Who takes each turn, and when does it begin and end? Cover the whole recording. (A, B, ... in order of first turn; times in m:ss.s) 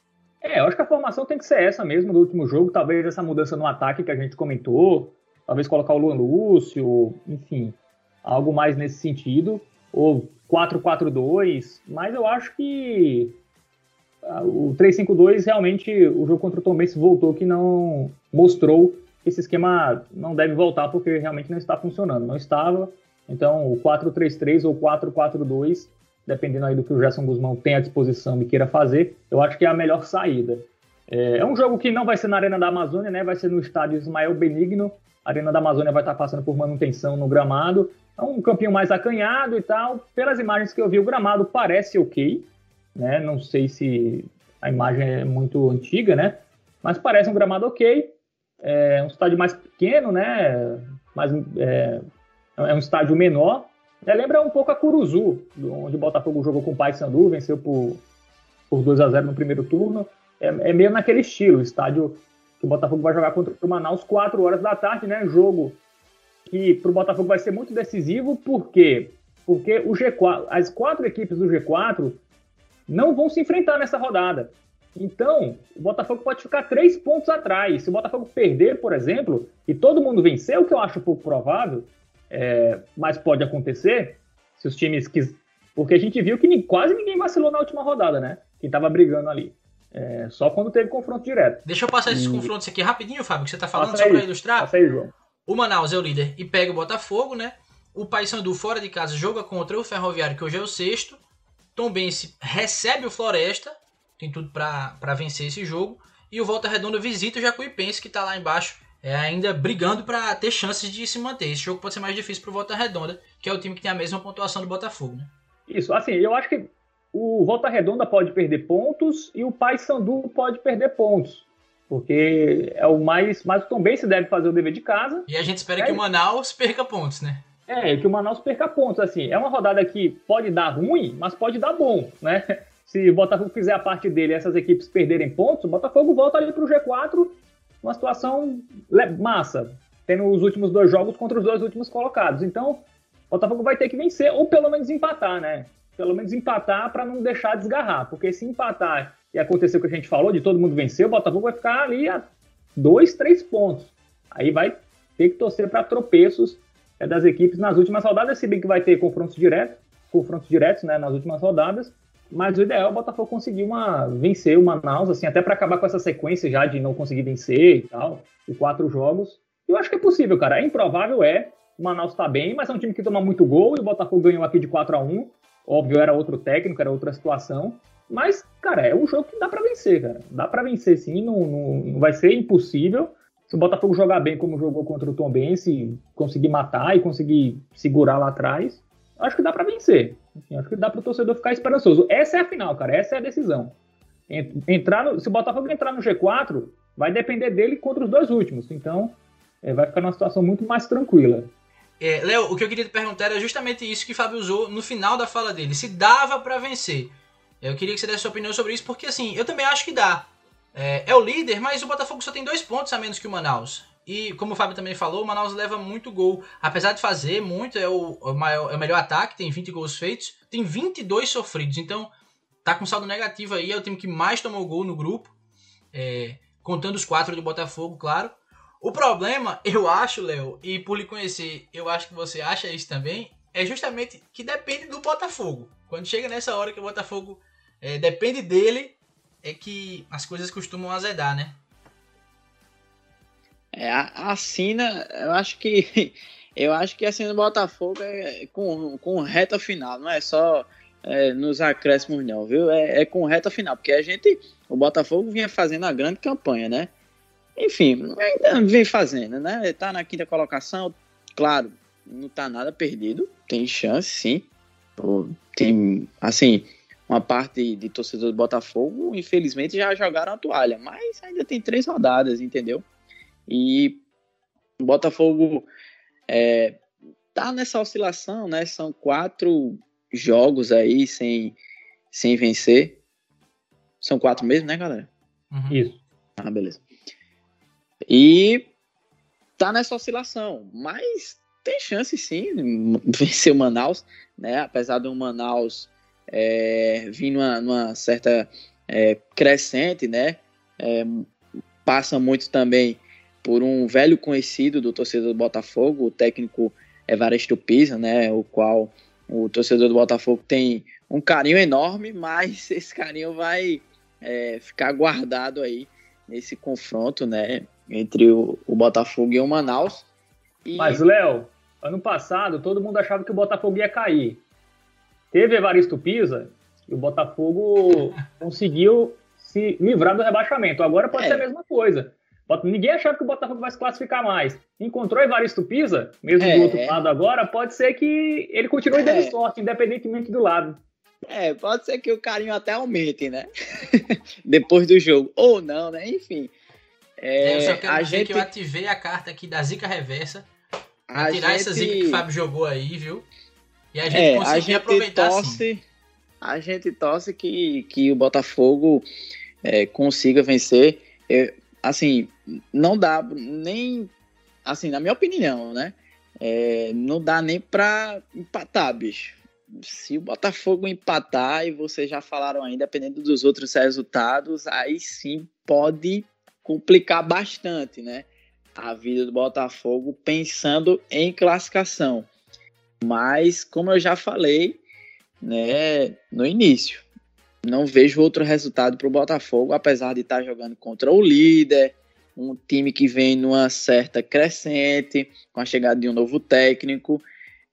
0:00.4-0:13.3 A
0:14.2-0:52.0 A
0:52.6-0:58.0 A
0:58.7-1:05.8 A
1:06.5-1:12.2 A
1:12.9-1:32.5 A
1:31.7-1:34.7 B
1:33.8-1:35.1 A
1:35.5-1:41.2 B
1:41.8-1:55.3 B
1:55.7-2:05.3 A
2:05.3-2:07.4 B
2:07.7-3:13.8 A
3:14.3-3:21.5 A
3:22.0-3:42.1 B
3:42.6-3:45.3 B
3:45.9-4:01.6 B
4:03.8-4:16.9 C
4:17.6-4:24.5 C
4:25.0-4:32.8 C
4:33.5-4:34.0 C
4:34.8-4:35.7 C
4:36.3-4:36.8 C
4:37.4-4:41.6 C
4:42.1-4:43.0 C
4:44.0-4:45.1 C
4:45.5-4:45.8 B
4:45.7-4:46.0 A
4:46.4-4:46.8 C
4:48.1-4:48.7 C
4:49.6-5:01.3 C
5:01.9-5:20.1 C
5:20.6-5:21.0 C
5:20.8-5:24.4 A
5:25.3-5:40.8 A
5:31.1-5:31.5 C
5:36.4-5:37.0 C
5:39.0-5:39.4 C
5:41.3-5:46.5 C
5:47.2-5:48.5 C
5:47.4-5:50.5 B
5:51.1-5:52.3 C
5:51.2-5:53.3 B
5:53.9-5:55.6 B
5:54.0-5:55.8 C
5:56.4-5:59.1 C
5:59.6-6:04.1 C
6:04.6-6:22.3 C
6:23.0-6:24.8 C
6:25.4-6:27.0 C
6:27.6-6:37.3 C